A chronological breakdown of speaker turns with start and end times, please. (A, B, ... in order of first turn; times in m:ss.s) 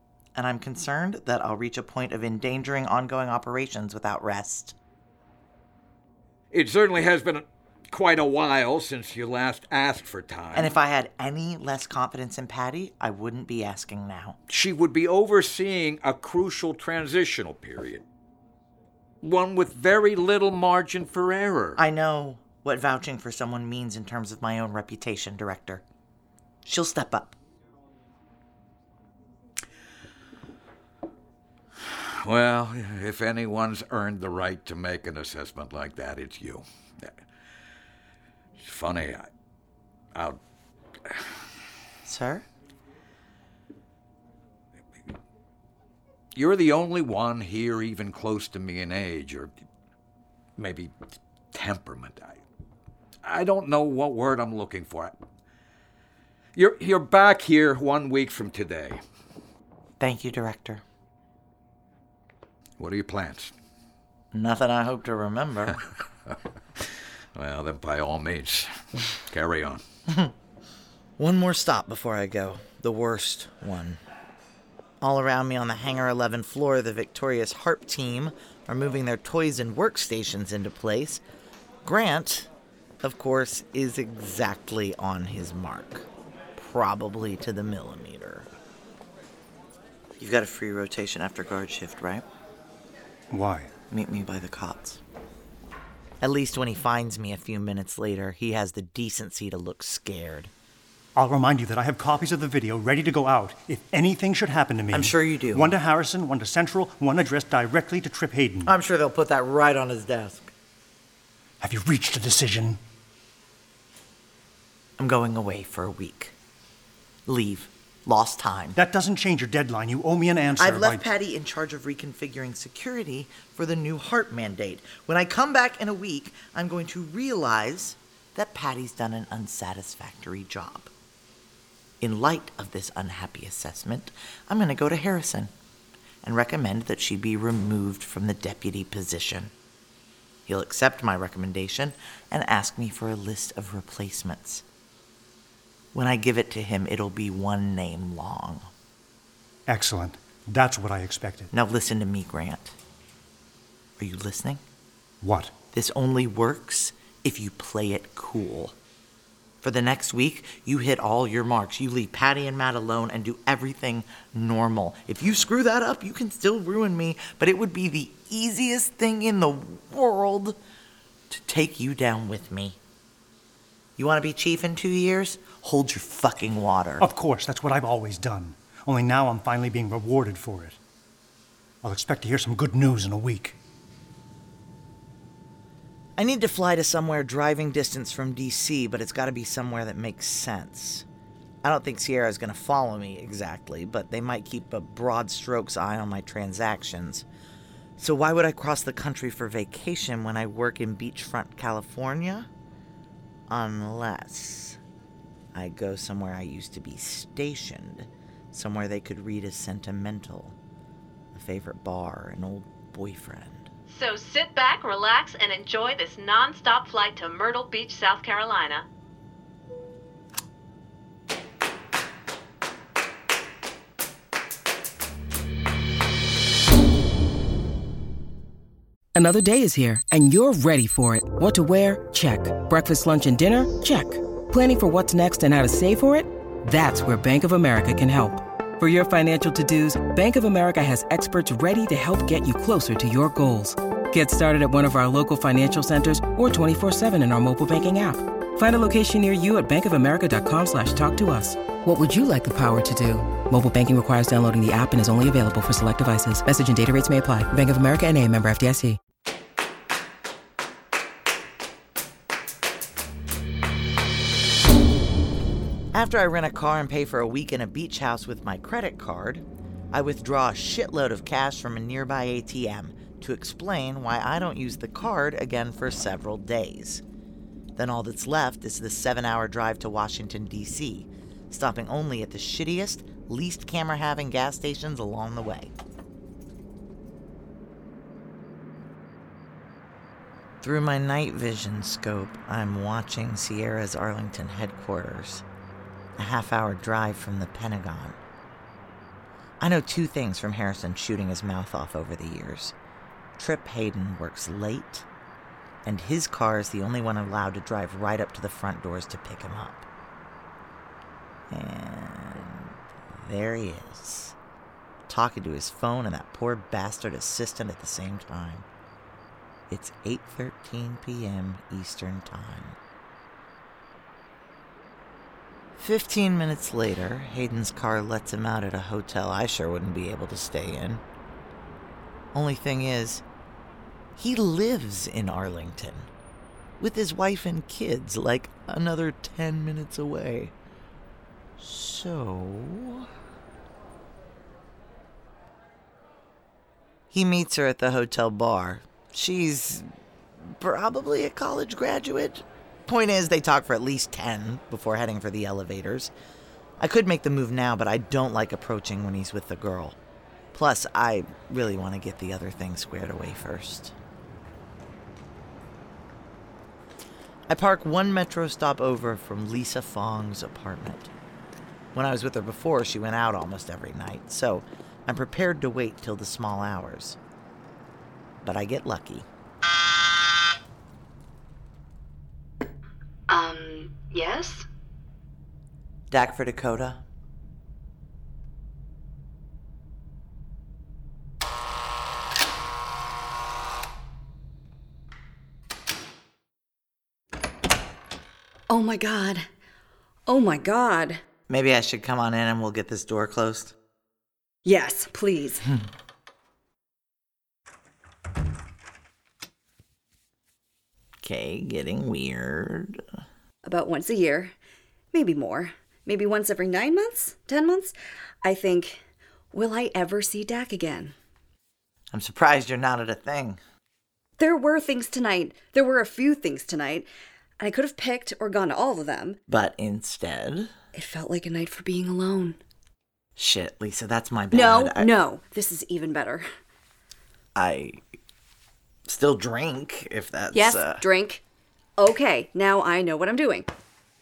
0:00.4-0:04.8 A
0:06.5-0:10.8 B
0:10.5-0:14.4 A
0:14.5-0:18.0 B
0:19.2-0:21.8 B
0:21.8-0:25.8 A
0:26.6-0:27.4 A
0:31.8-0:37.2 B
0:38.6-0:39.3 B
0:40.1-0:40.4 B
0:41.1-0:41.4 B
0:42.0-0:42.5 A
0:46.4-0:49.5 B
0:50.6-0:50.9 B
0:51.5-0:52.4 B
0:53.2-0:55.2 B
0:56.6-0:59.0 B
1:00.0-1:00.8 A
1:02.8-1:03.5 B
1:04.3-1:05.8 A
1:07.4-1:09.8 B
1:11.2-1:14.0 A
1:15.0-1:21.2 A
1:21.8-1:22.5 A
1:23.0-1:28.5 A
1:30.2-1:32.2 A
1:33.3-1:33.7 C
1:33.9-1:35.0 A
1:36.2-1:40.5 A
1:41.2-1:48.7 C
1:44.9-1:45.8 A
1:48.6-1:50.5 A
1:51.6-1:52.8 C
1:55.0-1:56.3 A
1:57.3-1:58.8 A
1:58.8-2:01.0 C
2:00.6-2:10.9 A
2:12.0-2:15.5 A
2:16.2-2:19.5 A
2:20.5-2:24.6 A
2:25.9-2:28.7 A
2:29.7-2:31.5 C
2:31.5-2:32.8 A
2:34.0-2:34.6 A
2:35.2-2:35.6 C
2:35.7-2:38.8 A
2:39.6-2:50.6 A
2:51.3-2:52.8 A
2:54.0-2:57.1 A
2:57.0-3:00.8 C
3:01.8-3:03.6 C
3:06.2-3:11.0 A
3:11.6-3:17.3 A
3:18.0-3:22.5 A
3:23.5-3:24.8 A
3:25.5-3:30.6 A
3:31.3-3:33.7 A
3:33.9-3:38.9 D
3:49.2-4:19.0 E
4:25.9-4:37.0 A
4:37.8-4:45.7 A
4:50.6-4:55.4 A
4:56.2-4:58.2 A
4:59.6-5:02.8 A
5:03.4-5:05.1 A
5:05.8-5:09.9 A
5:11.5-5:14.4 A
5:15.1-5:18.7 A
5:19.7-5:22.8 A
5:25.8-5:31.0 A
5:32.3-5:33.2 A
5:34.2-5:36.1 A
5:36.8-5:40.5 A
5:41.6-5:43.1 A
5:47.1-5:49.8 A
5:50.4-5:56.1 A
5:56.8-6:00.0 A
6:00.5-6:03.9 A
6:07.5-6:11.1 A
6:11.9-6:17.2 A
6:18.4-6:19.3 A
6:23.3-6:24.7 F
6:26.1-6:27.0 A
6:38.7-6:39.4 F
6:40.3-6:41.2 F
6:41.5-6:43.8 A
6:44.6-6:45.7 F
6:51.2-6:53.0 A
6:53.6-6:54.5 F
6:55.1-6:59.0 F
6:59.5-7:01.1 F
7:02.1-7:03.6 A
7:04.4-7:07.1 F
7:07.6-7:09.4 F
7:09.5-7:10.7 A
7:10.9-7:12.6 F
7:13.4-7:15.1 A
7:14.5-7:16.5 F
7:17.6-7:18.0 A
7:19.1-7:21.0 A
7:20.5-7:21.4 F
7:22.0-7:23.7 F